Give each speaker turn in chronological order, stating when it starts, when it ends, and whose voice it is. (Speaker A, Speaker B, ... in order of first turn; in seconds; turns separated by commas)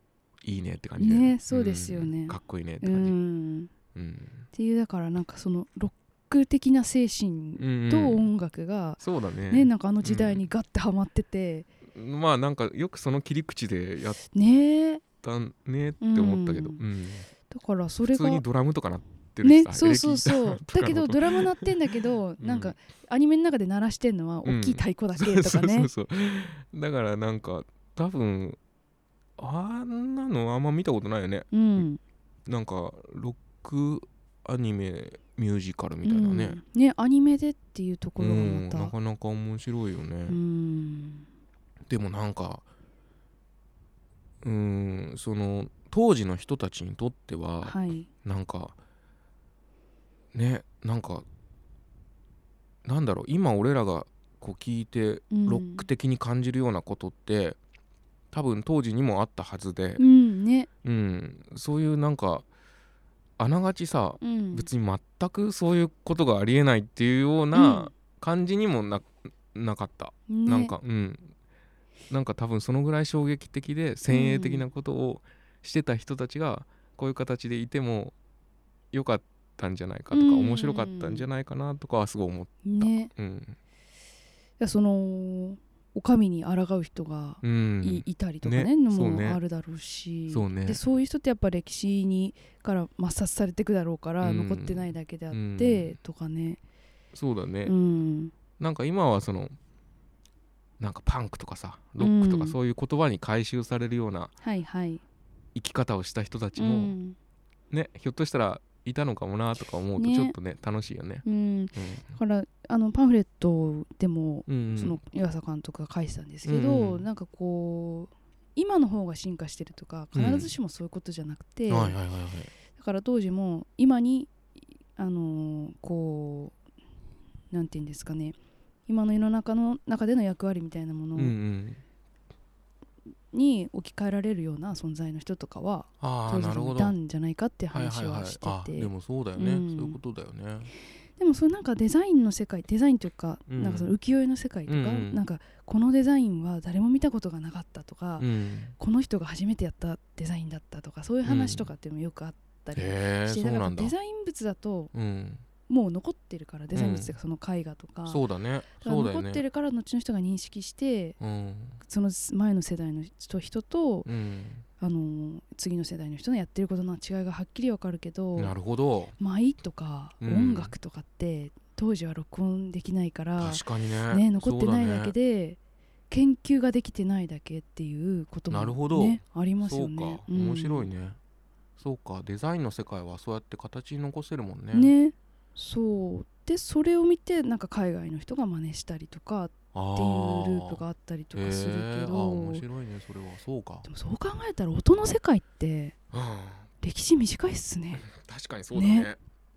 Speaker A: 0.4-3.1, Speaker B: 1.0-3.7, Speaker A: 3.9-4.5, Speaker B: 4.5-11.7, Speaker A: 7.6-8.3, Speaker A: 9.0-10.4, Speaker A: 11.9-14.2, Speaker B: 14.3-15.0, Speaker A: 15.2-17.3, Speaker B: 16.0-16.8, Speaker B: 17.5-18.4, Speaker A: 18.1-21.7, Speaker B: 19.4-25.9, Speaker A: 22.4-22.7, Speaker A: 24.4-28.6, Speaker A: 29.4-31.5, Speaker B: 31.5-32.0, Speaker A: 32.5-36.6, Speaker B: 36.0-38.9, Speaker A: 38.2-40.4, Speaker B: 40.3-41.2, Speaker A: 41.9-42.6, Speaker A: 44.4-48.8, Speaker B: 47.6-48.1, Speaker A: 50.3-51.2, Speaker A: 52.8-57.6, Speaker B: 55.3-55.9, Speaker A: 58.3-60.0, Speaker B: 60.0-60.7, Speaker A: 60.8-62.5, Speaker A: 63.4-71.3, Speaker B: 64.2-64.7, Speaker B: 67.5-67.9, Speaker B: 70.3-70.7, Speaker A: 72.1-78.1, Speaker B: 74.1-74.7, Speaker A: 78.9-83.5, Speaker B: 80.1-81.2, Speaker B: 82.6-83.1, Speaker B: 84.6-96.6, Speaker A: 87.4-89.4, Speaker A: 90.3-90.8, Speaker A: 94.2-95.9, Speaker A: 97.1-97.7, Speaker B: 97.6-98.3, Speaker A: 98.6-99.5, Speaker A: 100.8-104.3, Speaker B: 102.0-102.6, Speaker B: 104.4-105.0, Speaker A: 105.5-106.9, Speaker B: 106.6-107.2, Speaker A: 107.7-111.2, Speaker B: 110.0-110.3, Speaker B: 111.2-122.0, Speaker A: 111.8-112.1, Speaker A: 114.5-115.0, Speaker A: 116.4-117.0, Speaker A: 120.1-120.5, Speaker A: 121.7-122.5, Speaker B: 122.7-124.3, Speaker B: 125.0-126.5, Speaker B: 127.5-128.3, Speaker B: 128.9-131.3, Speaker A: 131.1-131.8, Speaker B: 133.3-140.0, Speaker A: 136.0-137.0, Speaker A: 137.7-140.7, Speaker B: 141.2-154.9, Speaker A: 143.5-143.9, Speaker A: 144.7-145.2, Speaker A: 148.2-148.7, Speaker A: 151.2-151.7, Speaker A: 152.7-153.9, Speaker A: 154.9-155.4, Speaker B: 155.7-158.2, Speaker A: 156.7-157.2, Speaker A: 158.1-159.4, Speaker B: 158.8-161.2, Speaker A: 161.2-161.8, Speaker B: 161.8-164.1, Speaker A: 164.0-164.6, Speaker B: 164.8-168.5, Speaker A: 168.3-169.1, Speaker B: 169.2-175.6, Speaker A: 170.2-170.7, Speaker A: 173.4-175.1, Speaker B: 176.1-180.9, Speaker A: 178.5-181.2, Speaker A: 181.8-184.9, Speaker B: 184.7-192.6, Speaker A: 189.7-190.8, Speaker A: 191.3-193.9, Speaker B: 193.9-195.9, Speaker A: 196.1-196.7, Speaker B: 196.8-198.1, Speaker A: 197.9-199.2, Speaker B: 198.7-199.1